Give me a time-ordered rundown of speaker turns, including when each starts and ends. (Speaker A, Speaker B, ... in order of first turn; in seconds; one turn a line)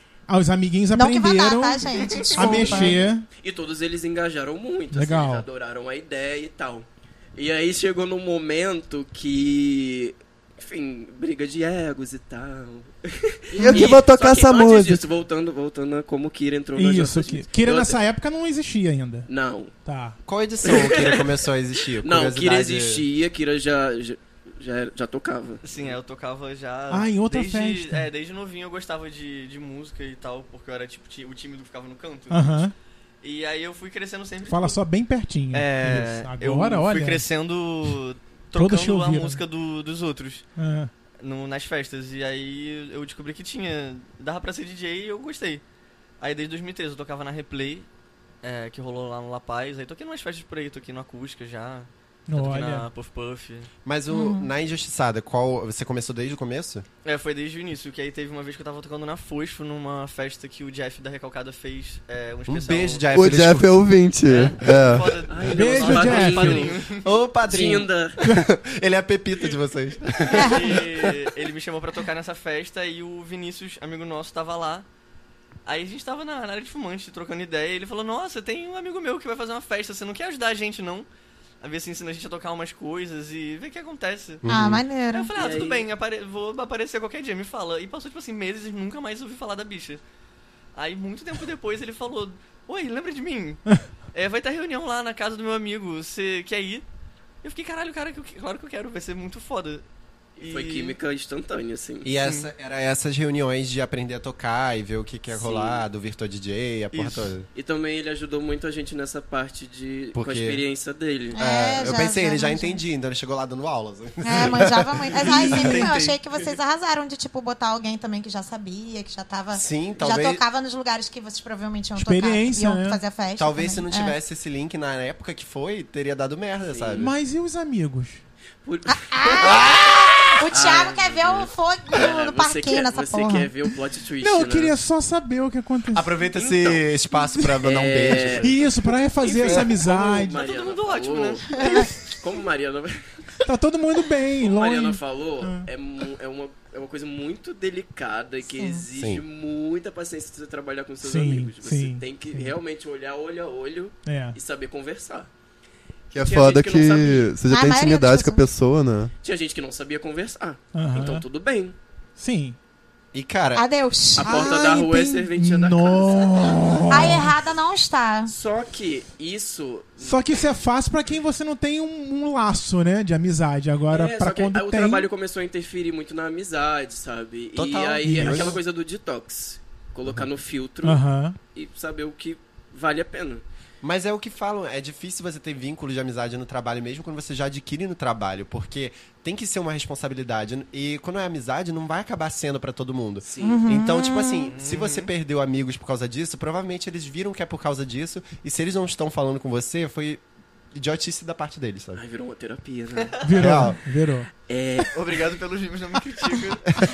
Speaker A: 0.3-3.3
Speaker B: 0.9-3.0
Speaker C: 2.0-2.8
Speaker D: 3.3-18.0
Speaker A: 4.9-5.4
Speaker E: 13.6-15.0
Speaker B: 13.6-13.9
Speaker A: 16.8-19.3
Speaker D: 19.3-19.7
Speaker A: 19.9-20.2
Speaker F: 20.2-23.0
Speaker D: 20.6-21.3
Speaker D: 22.0-25.6
Speaker C: 25.6-32.7
Speaker A: 26.9-28.1
Speaker A: 32.3-32.7
Speaker C: 33.2-34.8
Speaker A: 34.5-37.2
Speaker C: 35.5-40.5
Speaker A: 38.5-39.4
Speaker A: 40.6-40.9
Speaker C: 41.2-45.6
Speaker C: 46.2-47.9
Speaker C: 48.4-53.7
Speaker A: 52.3-52.9
Speaker F: 53.8-56.9
Speaker B: 54.1-54.5
Speaker C: 57.0-63.1
Speaker F: 62.5-63.8
Speaker E: 63.1-65.2
Speaker C: 64.2-67.0
Speaker D: 65.3-66.8
Speaker A: 65.5-66.7
Speaker F: 67.0-71.2
Speaker D: 67.5-68.2
Speaker B: 70.3-70.7
Speaker C: 70.4-74.8
Speaker C: 75.7-81.1
Speaker C: 81.6-84.4
Speaker F: 84.4-84.8
Speaker B: 84.4-85.3
Speaker C: 85.1-90.0
Speaker D: 85.3-85.8
Speaker C: 90.7-96.8
Speaker C: 97.4-99.8
Speaker C: 100.4-101.0
Speaker D: 100.4-102.1
Speaker F: 102.0-107.5
Speaker C: 102.2-102.5
Speaker D: 105.3-105.8
Speaker C: 106.9-107.3
Speaker D: 107.5-111.4
Speaker F: 110.1-110.6
Speaker B: 111.3-112.8
Speaker F: 111.4-115.8
Speaker B: 114.2-124.2
Speaker C: 115.2-116.2
Speaker F: 119.5-120.4
Speaker A: 122.0-123.0
Speaker F: 123.4-127.1
Speaker D: 126.6-127.1
Speaker A: 127.0-128.2
Speaker D: 128.6-134.8
Speaker B: 128.9-133.5
Speaker F: 129.4-129.8
Speaker A: 134.2-136.1
Speaker F: 135.9-138.6
Speaker D: 136.3-136.9
Speaker D: 137.6-138.6
Speaker A: 138.4-140.4
Speaker D: 139.2-143.0
Speaker C: 140.3-141.9
Speaker B: 141.5-141.8
Speaker A: 143.4-145.7
Speaker D: 144.4-155.3
Speaker B: 148.5-148.8
Speaker A: 151.0-152.5
Speaker A: 154.1-154.3
Speaker D: 156.1-157.3
Speaker E: 156.1-159.1
Speaker B: 157.5-158.4
Speaker D: 159.2-161.7
Speaker A: 160.7-161.2
Speaker A: 162.2-162.6
Speaker F: 163.1-163.7
Speaker B: 163.5-164.8
Speaker D: 164.2-166.6
Speaker A: 164.3-167.3
Speaker B: 166.9-168.3
Speaker D: 168.3-170.2
Speaker A: 170.0-175.1
Speaker D: 173.9-183.4
Speaker F: 177.6-178.6
Speaker A: 178.1-178.5
Speaker A: 180.8-181.4
Speaker F: 183.8-200.2
Speaker D: 193.2-193.6
Speaker B: 193.4-194.5
Speaker C: 194.4-195.1
Speaker F: 200.7-202.0
Speaker D: 201.9-203.6
Speaker A: 203.2-204.3
Speaker F: 203.4-203.8
Speaker D: 204.5-204.9
Speaker C: 204.9-206.6